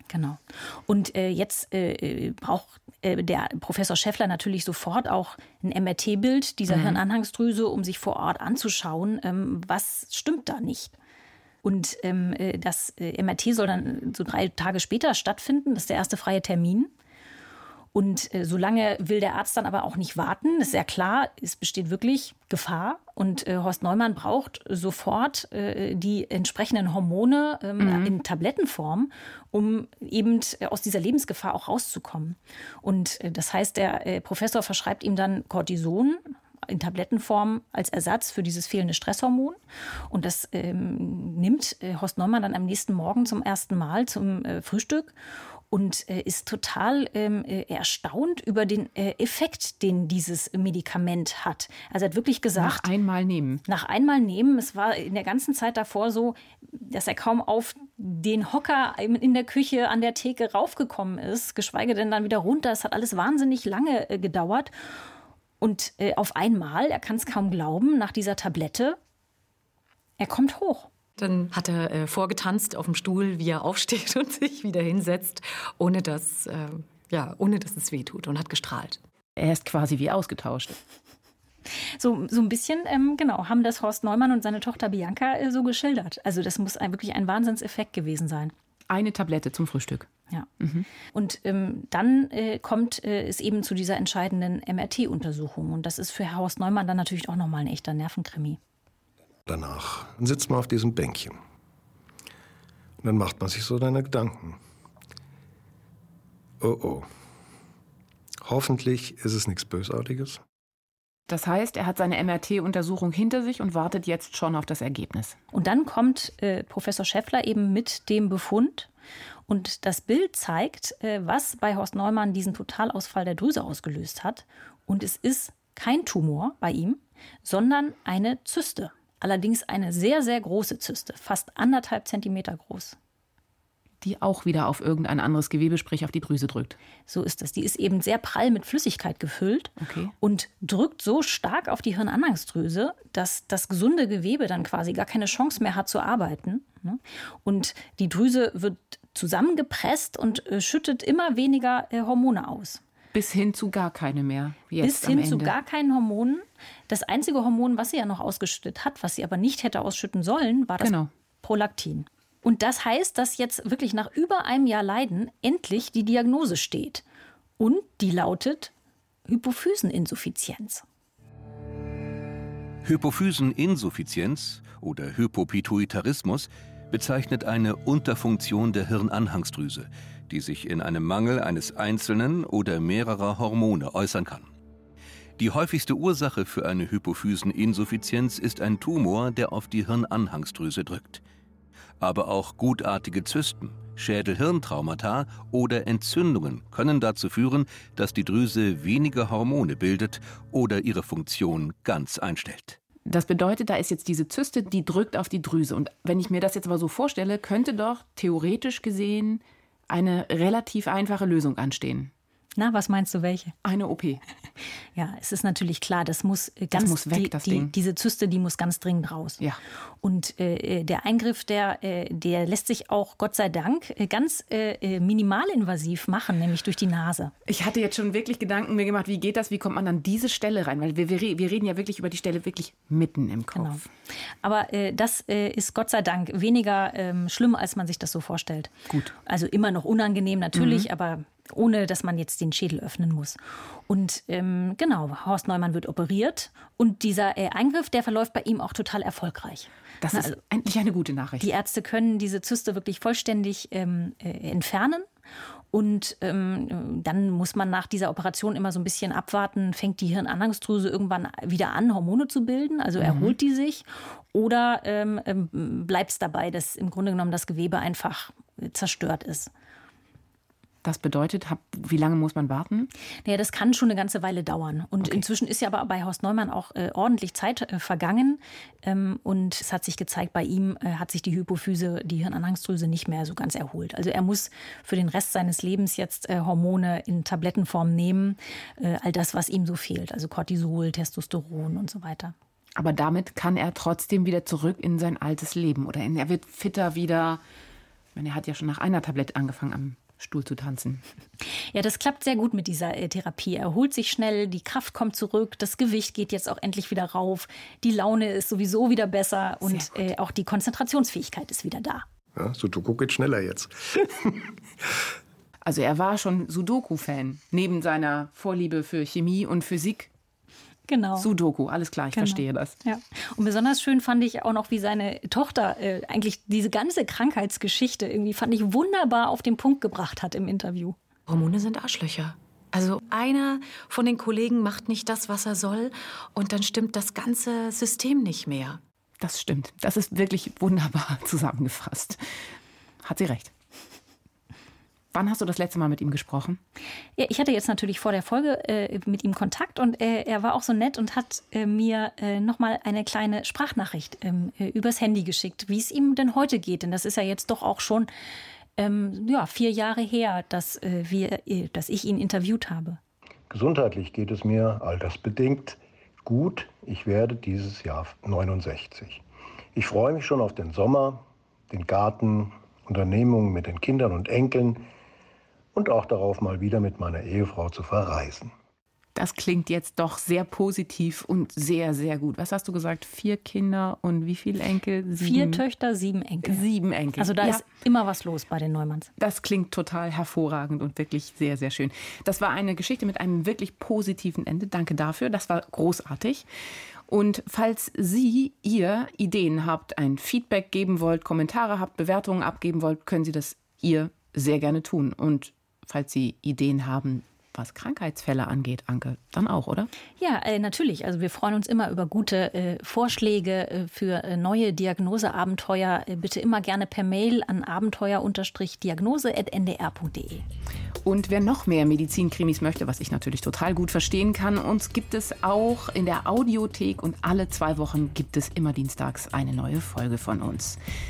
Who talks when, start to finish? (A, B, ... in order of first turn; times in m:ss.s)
0:00.1-0:10.9 A
0:06.7-0:07.0 B
0:11.6-0:16.9 A
0:17.9-0:39.6 A
0:27.8-0:28.1 B
0:40.1-0:45.1 A
0:45.7-0:52.9 A
0:52.6-0:53.6 B
0:53.7-1:04.7 A
1:05.6-1:09.0 A
1:10.2-1:10.9 A
1:11.2-1:19.0 C
1:19.4-1:20.8 B
1:22.0-1:28.5 A
1:28.9-1:30.1 B
1:30.6-1:30.9 B
1:31.1-1:38.6 A
1:39.5-1:41.4 D
1:43.0-1:44.6 D
1:46.6-1:47.1 D
1:48.4-1:50.4 D
1:51.3-1:55.4 B
1:55.5-1:58.9 A
1:59.5-2:13.0 A
2:14.0-2:16.8 B
2:17.1-2:32.8 A
2:19.8-2:20.1 B
2:33.1-2:35.5 B
2:34.8-2:47.0 A
2:40.8-2:41.1 B
2:47.6-2:48.7 A
2:49.3-2:50.8 A
2:52.8-3:04.5 E
3:05.4-3:11.2 E
3:12.0-3:22.8 E
3:23.1-3:32.1 B
3:32.6-3:33.6 A
3:33.6-3:34.2 B
3:35.0-3:39.4 A
3:36.7-3:37.7 B
3:40.0-3:47.3 A
3:47.5-3:53.9 B
3:53.5-3:53.8 A
3:54.4-3:58.7 A
3:58.9-3:59.2 B
3:59.2-4:03.4 A
4:00.5-4:00.9 B
4:03.9-4:10.3 A
4:10.0-4:11.5 B
4:11.4-4:15.1 A
4:15.7-4:29.5 A
4:23.0-4:23.3 B
4:30.8-4:32.9 B
4:33.2-4:52.3 A
4:52.8-4:57.4 B
4:58.1-5:01.0 B
5:01.7-5:12.1 A
5:09.6-5:10.0 B
5:12.4-5:15.0 D
5:15.6-5:20.1 B
5:20.9-5:21.3 A
5:21.2-5:22.8 B
5:22.1-5:31.0 A
5:31.3-5:38.8 C
5:39.2-5:43.5 B
5:45.1-5:46.6 B
5:47.2-5:58.1 A
5:58.8-6:03.0 A
6:03.5-6:09.2 D
6:09.7-6:14.9 D
6:15.7-6:18.5 D
6:19.2-6:25.6 B
6:25.2-6:26.6 A
6:26.4-6:27.6 B
6:27.2-6:29.1 A
6:29.2-6:36.4 B
6:37.1-6:49.9 B
6:50.2-7:00.4 A
7:01.0-7:10.8 B